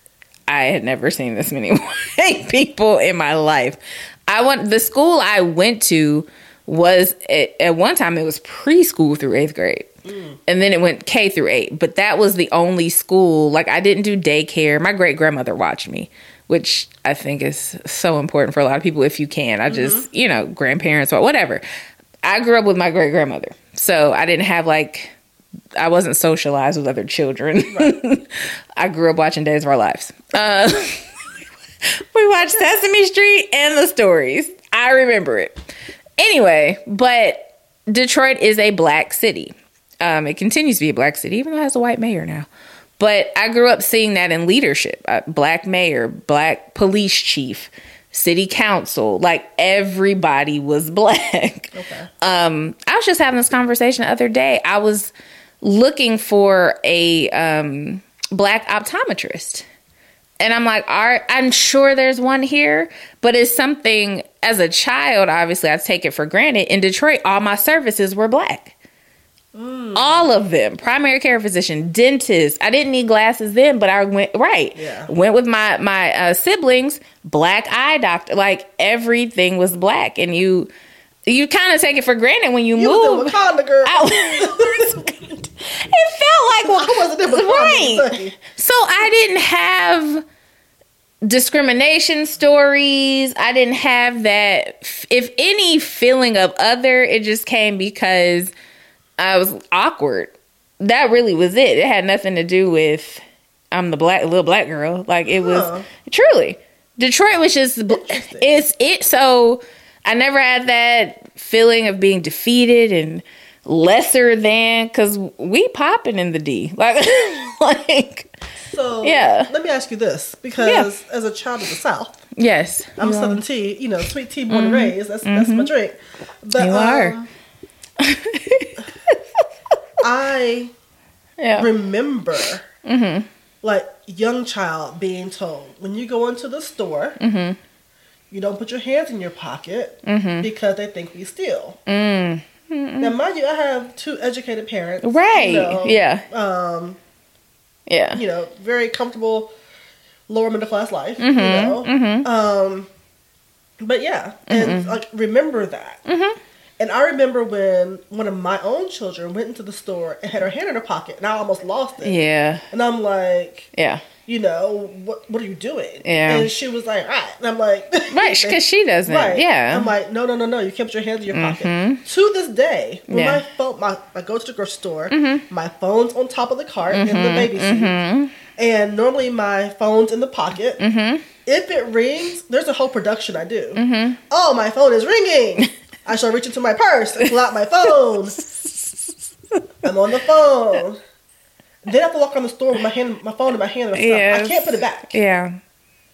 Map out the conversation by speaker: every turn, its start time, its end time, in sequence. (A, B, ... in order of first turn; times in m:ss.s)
0:00.5-0:09.9 A
0:10.0-0:10.4 B
0:10.5-0:21.6 A
0:19.7-0:20.1 B
0:22.2-0:25.1 A
0:25.8-0:35.6 A
0:27.7-0:27.9 B
0:36.2-0:42.5 A
0:43.0-0:59.6 A
0:51.7-0:52.1 B
1:00.4-1:08.7 A
1:09.5-1:10.3 B
1:09.9-1:20.7 A
1:14.7-1:15.1 B
1:21.2-1:30.2 A
1:22.8-1:25.4 B
1:26.6-1:28.4 B
1:31.2-1:38.5 A
1:39.2-1:58.3 A
1:45.3-1:45.9 B
1:47.9-1:48.6 B
1:58.6-2:02.2 B
1:59.0-1:59.5 A
2:00.6-2:00.9 A
2:02.4-2:03.4 A
2:03.0-2:07.3 B
2:04.5-2:05.7 A
2:06.6-2:07.1 A
2:08.0-2:09.4 A
2:10.0-2:10.7 B
2:11.4-2:11.7 A
2:11.5-2:12.6 B
2:12.8-2:13.3 A
2:13.6-2:17.2 B
2:17.2-2:17.6 A
2:18.3-2:21.8 B
2:20.0-2:20.5 A
2:21.9-2:23.1 A
2:23.0-2:27.0 B
2:25.0-2:26.2 A
2:27.9-2:28.2 A
2:28.1-2:29.5 B
2:30.3-2:32.9 B
2:31.2-2:32.2 A
2:33.8-2:36.0 B
2:34.5-2:35.0 A
2:36.0-2:36.4 A
2:36.8-2:43.7 B
2:42.0-2:42.6 A
2:43.7-2:44.0 A
2:44.2-2:58.0 B
2:46.0-2:46.5 A
2:48.1-2:49.9 A
2:51.3-2:52.0 A
2:53.1-2:53.4 A
2:55.1-2:55.4 A
2:56.9-2:58.4 A
2:58.6-3:00.8 B
3:00.8-3:01.3 A
3:01.4-3:08.4 B
3:03.8-3:04.2 A
3:07.9-3:09.6 A
3:09.8-3:11.0 B
3:11.8-3:15.2 B
3:13.9-3:15.6 A